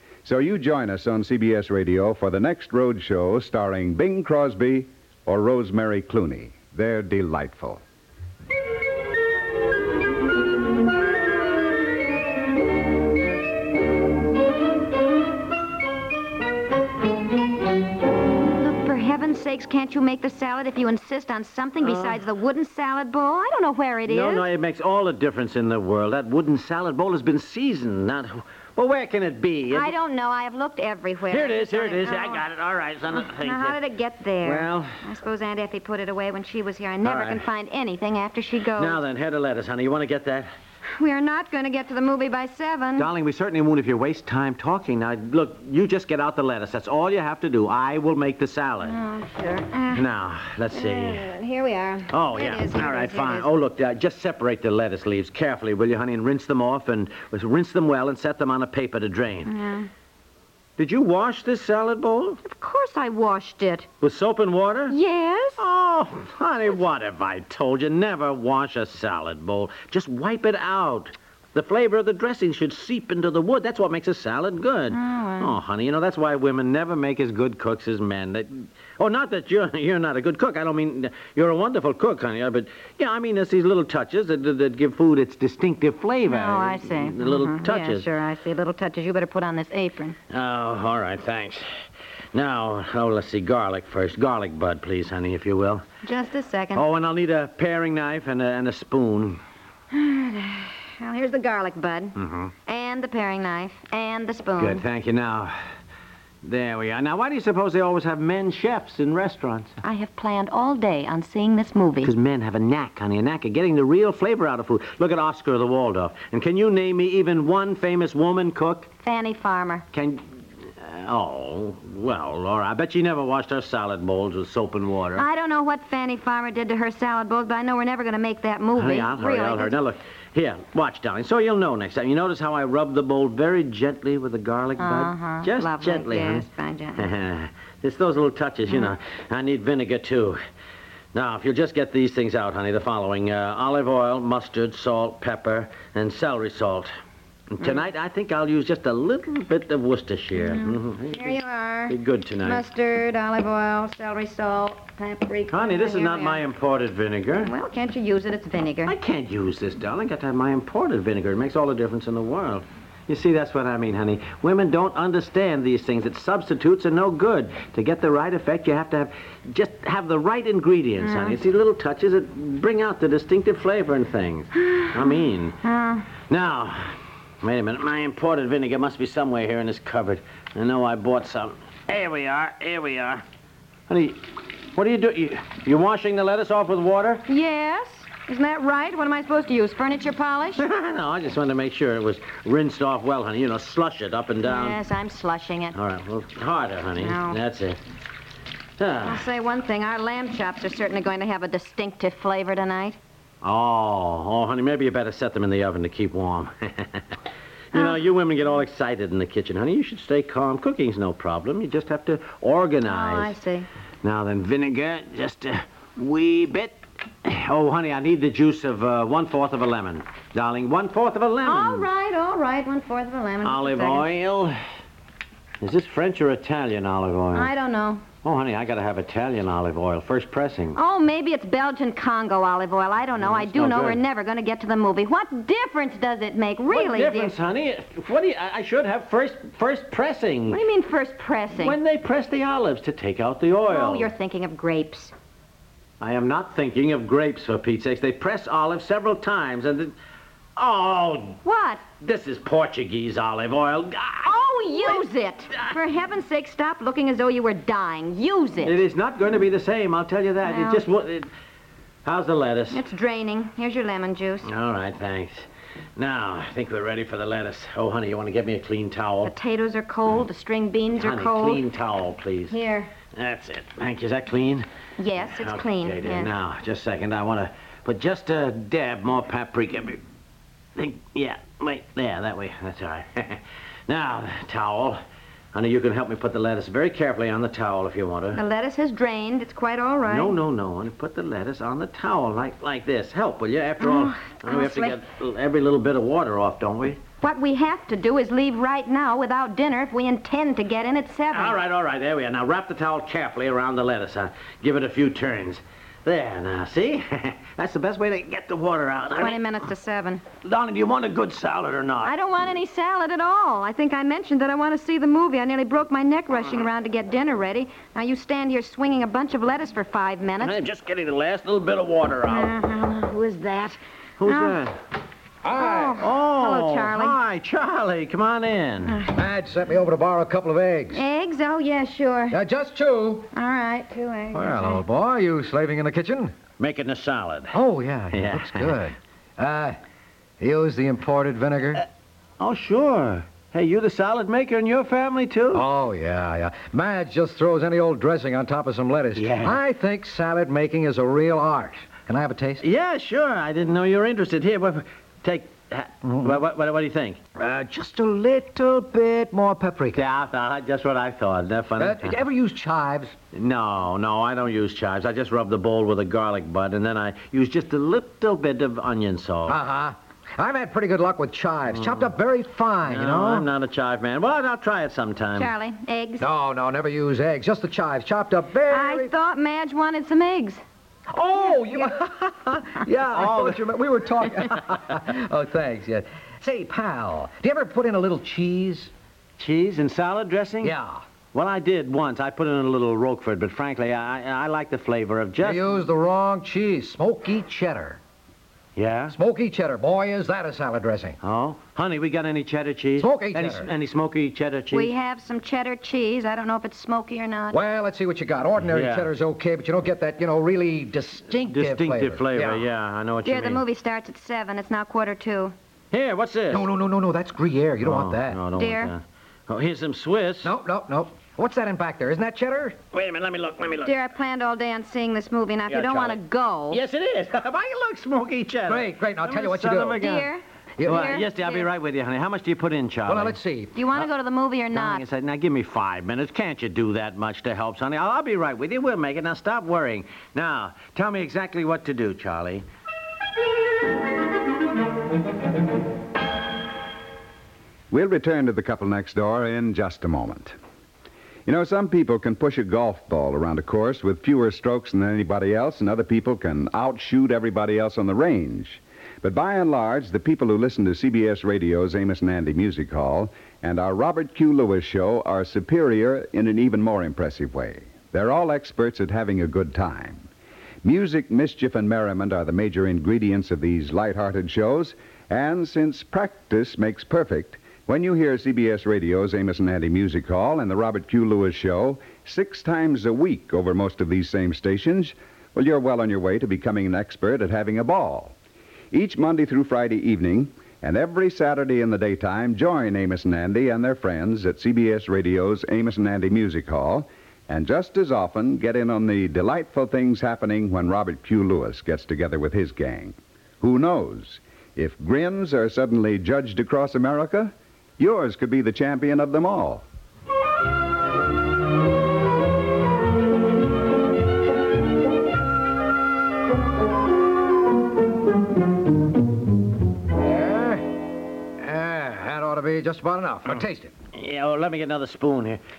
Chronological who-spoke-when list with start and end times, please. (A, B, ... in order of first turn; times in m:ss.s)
0:00.2-0:07.8 A
0:18.4-0:24.5 B
0:21.8-0:22.2 C
0:24.1-0:29.9 C
0:29.7-0:32.4 B
0:31.3-0:33.8 C
0:33.1-0:39.0 B
0:34.4-0:35.0 C
0:37.0-0:37.4 C
0:38.8-0:40.5 C
0:41.0-0:43.1 B
0:43.0-0:49.0 C
0:48.8-0:50.0 B
0:49.9-0:51.3 C
0:50.7-0:53.5 B
0:52.1-0:59.5 C
0:59.4-0:59.9 B
1:00.8-1:02.4 C
1:02.4-1:03.9 B
1:04.0-1:05.0 C
1:04.9-1:05.6 B
1:05.6-1:28.1 C
1:14.9-1:15.6 B
1:26.2-1:30.2 B
1:30.3-1:31.6 C
1:32.3-1:35.8 C
1:36.0-1:36.8 B
1:36.7-1:39.4 C
1:39.9-1:44.8 B
1:42.2-1:42.5 C
1:44.6-1:45.6 C
1:46.4-1:49.8 C
1:49.8-1:52.1 B
1:52.0-1:58.9 C
1:59.0-1:59.8 B
1:59.9-2:05.2 C
2:05.2-2:09.8 B
2:08.8-2:16.5 C
2:14.8-2:17.1 B
2:17.0-2:20.4 C
2:21.1-2:26.9 C
2:27.5-2:32.6 C
2:30.4-2:36.5 B
2:35.5-2:37.5 C
2:37.4-2:39.0 B
2:38.9-2:55.6 C
2:51.0-2:51.4 B
2:55.6-2:56.1 B
2:56.3-3:03.2 C
3:03.9-3:07.3 C
3:07.3-3:10.6 B
3:10.6-3:14.8 C
3:14.4-3:15.8 B
3:15.8-3:17.8 C
3:17.0-3:17.4 B
3:18.8-3:19.2 C
3:19.0-3:23.0 B
3:23.4-3:27.1 C
3:27.7-3:33.4 C
3:32.8-3:33.7 B
3:34.0-3:41.9 C
3:41.4-3:44.1 B
3:43.4-3:44.6 C
3:45.6-3:47.5 C
3:47.3-3:48.0 B
3:48.2-3:50.8 C
3:50.8-3:57.4 B
3:53.2-3:54.0 C
3:56.7-4:00.6 C
4:00.5-4:01.8 B
4:01.6-4:04.1 C
4:03.7-4:05.1 B
4:06.0-4:09.9 C
4:10.6-4:11.4 C
4:11.4-4:11.8 B
4:12.0-4:15.8 C
4:14.2-4:18.8 B
4:18.6-4:21.3 C
4:20.4-4:20.8 B
4:22.0-4:22.8 C
4:22.7-4:24.5 B
4:24.4-4:29.3 C
4:29.2-4:31.6 B
4:31.0-4:32.6 C
4:32.5-4:32.9 B
4:33.1-4:34.6 C
4:35.0-4:36.3 B
4:35.2-4:40.0 C
4:40.8-4:45.0 C
4:45.5-4:48.4 C
4:48.3-4:50.4 B
4:50.1-4:57.0 C
4:53.8-4:55.0 B
4:57.2-5:01.6 B
5:01.3-5:09.4 C
5:09.2-5:10.2 B
5:10.4-5:12.1 C
5:12.0-5:20.6 B
5:20.4-5:22.5 C
5:22.2-5:24.6 B
5:24.2-5:24.8 C
5:25.4-5:26.1 D
5:25.5-5:27.2 B
5:26.0-5:29.0 C
5:28.9-5:29.2 B
5:29.1-5:31.0 D
5:30.9-5:32.4 B
5:32.3-5:33.3 D
5:33.3-5:34.8 B
5:34.3-5:36.3 D
5:36.6-5:37.5 C
5:37.5-5:39.8 D
5:38.1-5:38.8 C
5:40.4-5:41.8 D
5:42.4-5:45.7 C
5:45.5-5:52.6 D
5:49.2-5:49.6 C
5:52.6-5:57.2 C
5:57.4-6:00.0 D
5:59.9-6:02.2 C
6:01.8-6:03.2 D
6:03.3-6:09.6 C
6:09.5-6:13.5 D
6:11.7-6:12.1 C
6:12.9-6:15.5 C
6:15.4-6:16.3 B
6:16.2-6:19.1 D
6:18.7-6:20.6 B
6:21.1-6:28.9 D
6:23.1-6:23.7 C
6:29.4-6:30.8 C
6:30.6-6:31.0 D
6:31.3-6:35.7 C
6:35.4-6:38.0 D
6:38.8-6:39.2 C
6:39.1-6:41.2 D
6:41.2-6:44.9 C
6:43.0-6:43.7 D
6:44.7-6:47.6 B
6:47.5-6:52.7 D
6:48.6-6:49.1 C
6:51.3-6:53.6 C
6:53.2-6:55.5 B
6:55.9-6:56.6 C
6:56.5-6:58.4 D
6:57.8-7:00.6 C
6:58.6-6:58.9 B
7:00.4-7:02.8 D
7:02.9-7:04.0 C
7:03.8-7:06.8 B
7:05.7-7:06.2 C
7:06.7-7:10.3 C
7:08.7-7:10.0 D
7:10.0-7:11.7 B
7:10.8-7:11.2 D
7:10.8-7:13.4 C
7:13.1-7:13.9 D
7:13.8-7:15.0 B
7:14.7-7:22.6 C
7:27.9-7:30.6 A
7:31.5-7:50.3 A
7:50.8-8:08.4 A
8:08.9-8:29.8 A
8:40.2-8:40.9 D
8:41.6-8:43.9 D
8:44.1-8:45.6 C